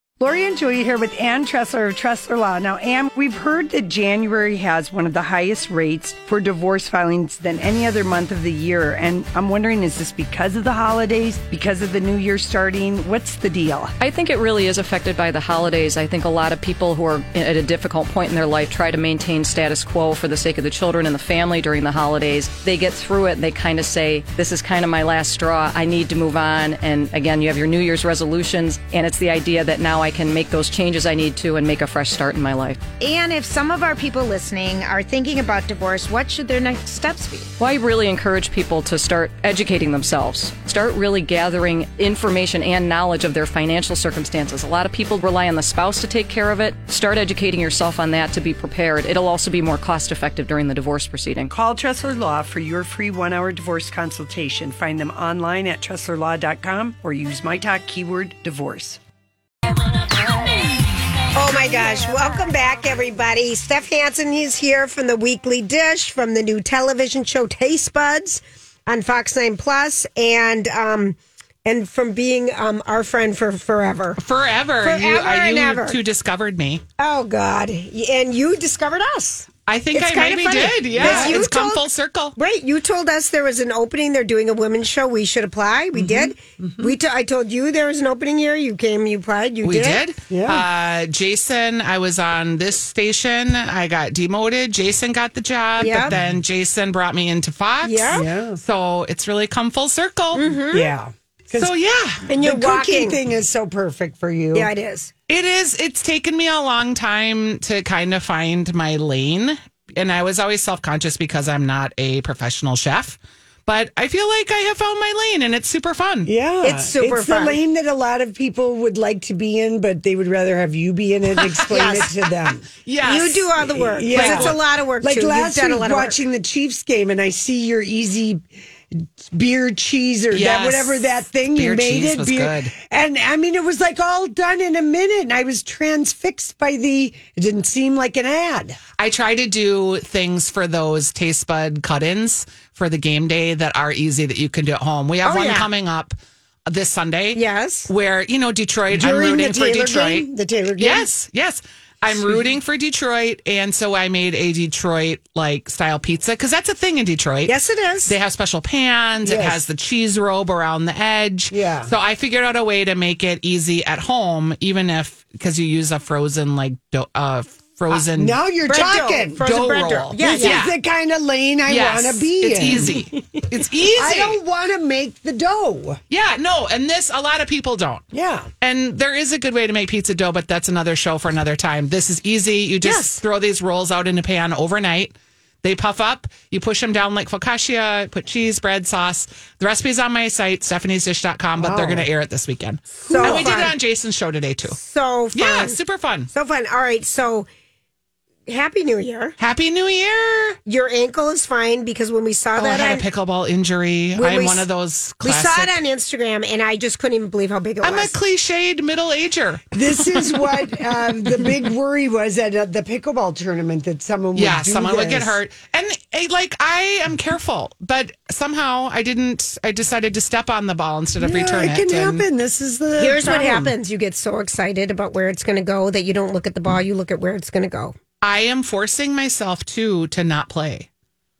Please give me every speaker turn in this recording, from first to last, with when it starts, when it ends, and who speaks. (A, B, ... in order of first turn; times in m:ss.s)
0:00.2-0:13.9 A
0:14.0-0:32.9 B
0:33.0-0:37.5 C
0:37.6-0:51.5 B
0:51.5-0:59.0 A
1:01.3-1:14.2 D
1:14.2-1:16.8 E
1:14.8-1:16.0 D
1:17.0-1:21.8 D
1:19.6-1:22.3 E
1:20.9-1:21.4 A
1:22.4-1:30.0 D
1:25.9-1:26.9 A
1:29.6-1:40.5 E
1:30.3-1:30.6 A
1:35.8-1:36.1 D
1:36.0-1:36.4 A
1:37.8-1:38.3 D
1:38.1-1:38.6 A
1:40.3-1:40.9 D
1:40.7-1:41.7 A
1:41.5-1:42.2 E
1:42.3-1:43.2 D
1:42.3-1:44.7 A
1:44.5-1:45.1 D
1:45.3-1:56.3 E
1:56.2-2:02.7 A
1:56.6-1:57.6 D
2:01.4-2:02.0 E
2:01.7-2:02.1 D
2:02.8-2:03.5 E
2:03.0-2:06.2 D
2:03.7-2:18.8 A
2:04.1-2:04.6 E
2:10.3-2:11.0 E
2:11.6-2:12.7 E
2:19.0-2:26.2 E
2:25.2-2:25.7 D
2:26.7-2:37.5 E
2:27.3-2:27.9 D
2:28.9-2:31.1 A
2:32.1-2:32.4 A
2:37.4-2:38.1 D
2:38.0-2:48.4 E
2:39.2-2:39.6 A
2:41.5-2:41.9 A
2:47.9-2:49.4 A
2:48.7-2:50.6 D
2:49.4-2:50.7 E
2:50.2-2:53.1 A
2:51.7-2:54.4 E
2:53.8-2:56.0 A
2:56.1-2:58.0 E
2:58.1-2:58.5 A
2:58.6-3:14.8 E
3:02.8-3:03.1 A
3:11.6-3:12.0 A
3:13.0-3:13.7 A
3:13.0-3:13.7 D
3:14.7-3:15.8 D
3:15.3-3:16.3 E
3:16.3-3:17.5 D
3:18.5-3:19.3 D
3:19.4-3:20.6 E
3:20.6-3:23.0 D
3:22.6-3:25.8 E
3:24.2-3:24.6 D
3:25.2-3:28.1 D
3:27.8-3:30.2 E
3:29.7-3:35.4 A
3:34.3-3:42.2 E
3:41.2-3:43.7 A
3:43.0-3:47.9 D
3:48.2-3:50.9 E